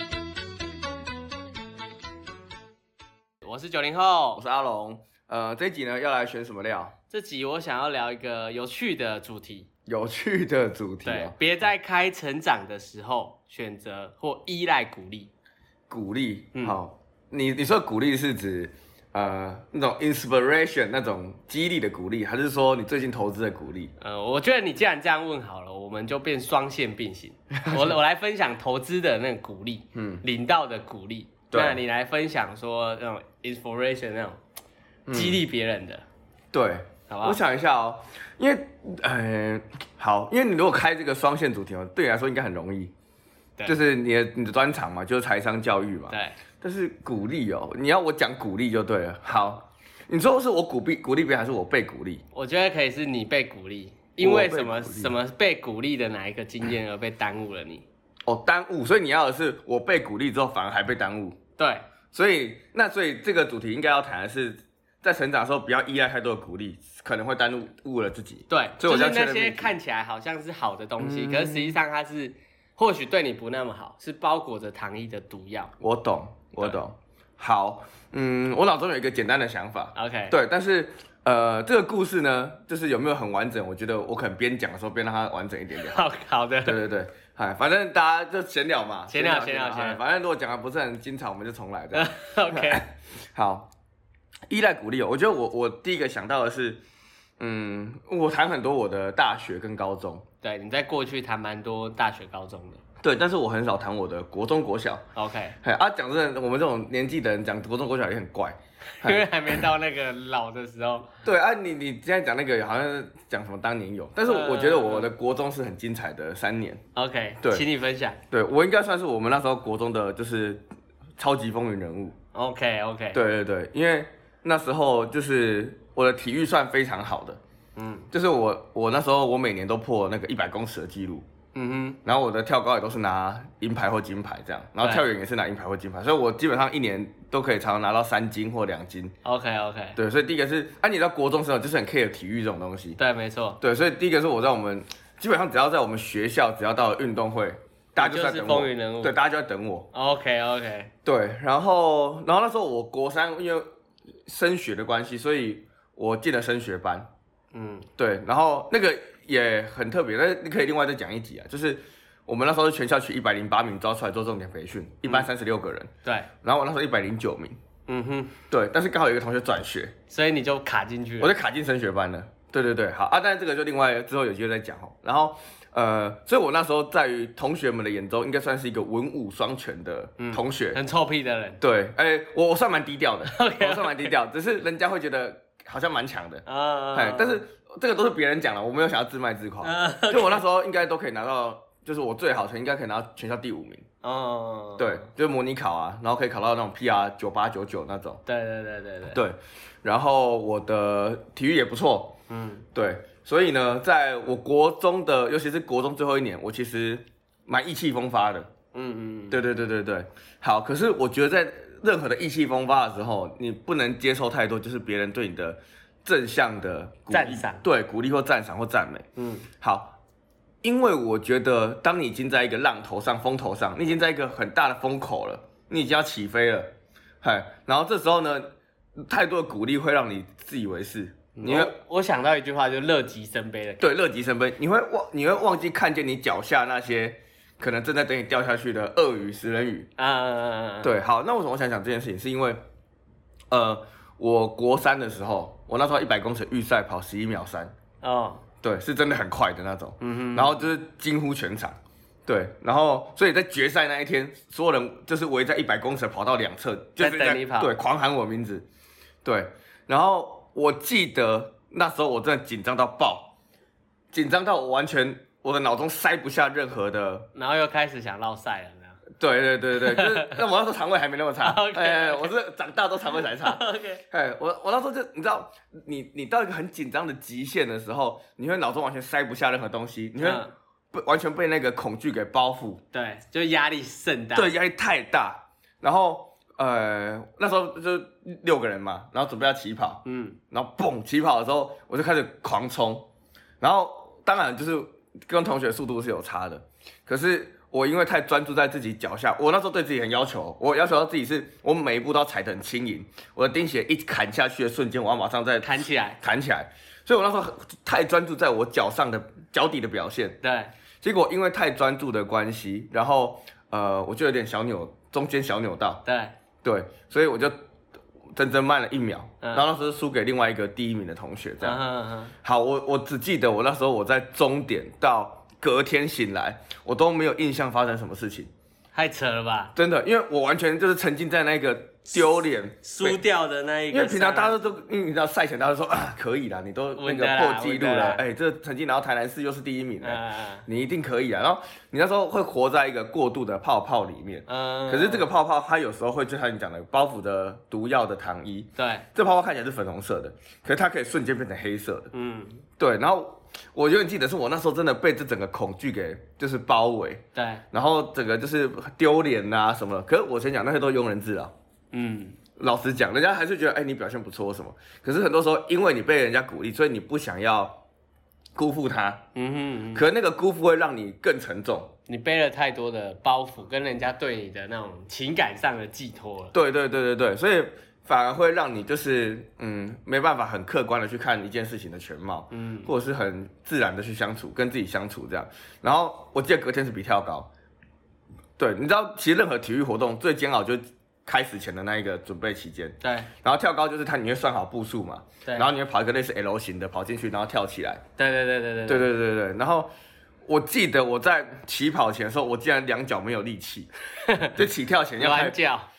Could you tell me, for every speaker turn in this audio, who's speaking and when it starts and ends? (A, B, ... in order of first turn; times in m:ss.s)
0:03.4-0:04.4 A
0:04.4-0:06.9 B
0:07.1-0:09.7 A
0:09.9-0:11.3 B
0:11.0-0:15.3 A
0:15.9-0:23.9 B
0:24.0-0:34.4 A
0:27.5-0:27.9 B
0:29.9-0:30.2 B
0:31.5-0:31.8 B
0:35.1-0:35.4 B
0:35.1-0:36.0 A
0:36.5-0:42.9 B
0:37.1-0:37.4 A
0:43.6-0:52.2 B
0:46.1-0:46.4 A
0:52.3-0:57.8 A
0:54.2-0:55.1 B
0:58.2-1:01.4 B
1:01.6-1:01.8 A
1:02.1-1:09.7 B
1:08.5-1:15.7 A
1:11.0-1:11.8 B
1:15.8-1:26.0 B
1:19.9-1:20.4 A
1:25.8-1:26.8 A
1:26.6-1:33.7 B
1:29.1-1:30.0 A
1:31.9-1:32.8 A
1:34.5-1:36.8 B
1:37.4-1:40.2 B
1:40.4-1:42.8 A
1:43.0-1:45.0 B
1:45.2-1:45.6 A
1:45.6-1:49.7 B
1:49.0-1:51.1 A
1:51.2-1:56.8 B
1:54.2-1:55.1 A
1:56.9-1:58.2 A
1:58.3-2:00.6 B
2:01.2-2:02.1 B
2:02.3-2:03.2 A
2:03.1-2:07.4 B
2:07.8-2:08.1 A
2:08.1-2:11.2 B
2:11.5-2:12.0 A
2:12.0-2:19.1 B
2:14.8-2:15.1 A
2:19.2-2:20.0 A
2:20.0-2:23.0 B
2:23.0-2:23.6 A
2:23.6-2:29.9 B
2:28.0-2:29.2 A
2:29.9-2:30.9 A
2:31.0-2:33.6 B
2:34.2-2:37.1 B
2:37.5-2:37.9 A
2:38.0-2:45.9 B
2:46.4-2:47.6 B
2:47.9-2:48.3 A
2:48.5-2:49.9 B
2:50.1-2:51.3 A
2:51.2-3:00.8 B
3:00.2-3:01.6 A
3:01.6-3:13.8 B
3:03.2-3:04.1 A
3:06.4-3:07.4 A
3:09.6-3:10.4 A
3:14.0-3:15.0 A
3:14.8-3:18.2 B
3:18.2-3:19.2 A
3:19.1-3:22.1 B
3:22.3-3:22.6 A
3:22.7-3:28.5 B
3:28.7-3:29.4 A
3:29.3-3:39.0 B
3:37.1-3:37.6 A
3:39.2-3:39.5 A
3:39.6-3:40.0 B
3:40.6-3:51.7 B
3:51.4-3:53.8 A
3:53.8-3:59.9 B
4:00.0-4:00.9 A
4:00.8-4:02.6 B
4:03.5-4:07.7 B
4:08.0-4:08.4 A
4:08.6-4:18.6 B
4:10.0-4:10.6 A
4:17.0-4:17.7 A
4:19.2-4:23.3 B
4:24.1-4:27.3 B
4:27.3-4:29.0 A
4:29.2-4:42.8 B
4:29.8-4:30.4 A
4:31.4-4:32.3 A
4:33.2-4:34.0 A
4:40.2-4:40.5 A
4:42.9-4:44.5 A
4:44.3-4:53.1 B
4:50.0-4:50.4 A
4:53.6-5:10.4 B
5:05.6-5:06.2 A
5:10.4-5:10.7 A
5:11.0-5:16.0 B
5:16.0-5:16.3 A
5:16.6-5:17.6 B
5:18.3-5:21.8 B
5:21.6-5:22.3 A
5:22.4-5:28.5 B
5:28.9-5:29.7 A
5:29.8-5:33.2 B
5:32.8-5:34.6 A
5:33.9-5:52.1 B
5:37.0-5:38.2 A
5:40.0-5:40.6 A
5:44.5-5:45.2 A
5:48.8-5:49.0 A
5:52.1-5:52.6 A
5:52.8-6:01.5 B
5:57.3-5:57.6 A
6:01.9-6:02.4 A
6:02.6-6:07.8 B
6:08.5-6:09.2 B
6:09.3-6:10.0 A
6:09.9-6:11.9 B
6:12.1-6:16.5 A
6:16.5-6:27.5 B
6:22.5-6:22.9 A
6:28.6-6:38.0 B
6:33.0-6:33.3 A
6:35.4-6:35.7 A
6:38.2-6:39.0 A
6:38.9-6:39.9 B
6:40.4-6:43.9 B
6:44.2-6:44.6 A
6:44.5-6:45.6 B
6:45.2-6:45.9 A